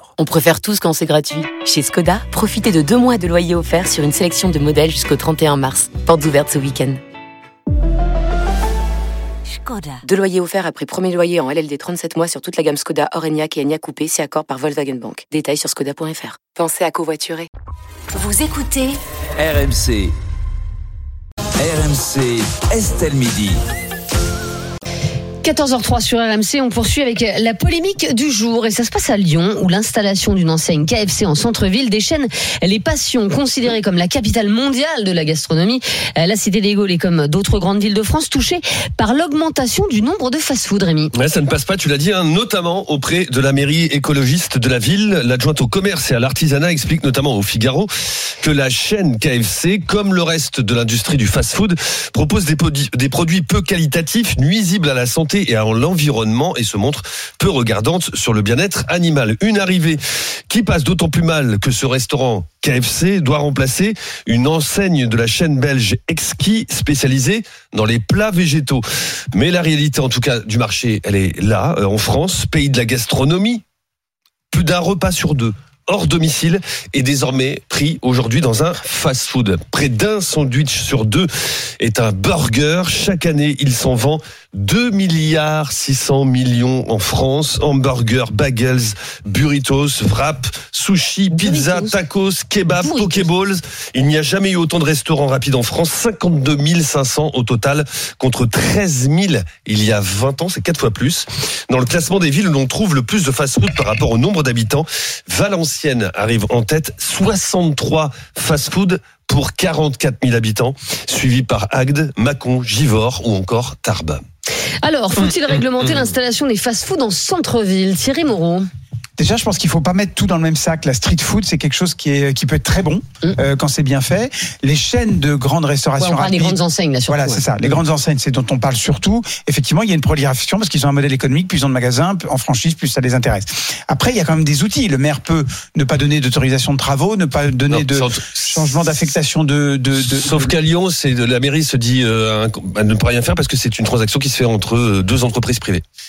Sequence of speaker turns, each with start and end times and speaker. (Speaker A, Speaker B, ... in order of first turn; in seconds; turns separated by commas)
Speaker A: 0.2-7.0, Speaker A: 10.0-17.5, Speaker B: 18.2-18.8, Speaker C: 19.4-20.1, Speaker C: 21.6-23.6, Speaker B: 25.4-41.1, Speaker D: 41.1-47.9, Speaker D: 48.4-73.6, Speaker D: 74.5-114.2, Speaker B: 91.3-91.9, Speaker B: 92.8-93.3, Speaker B: 114.8-118.7, Speaker E: 119.2-140.6, Speaker B: 126.0-127.4, Speaker D: 137.7-138.7, Speaker D: 140.0-145.8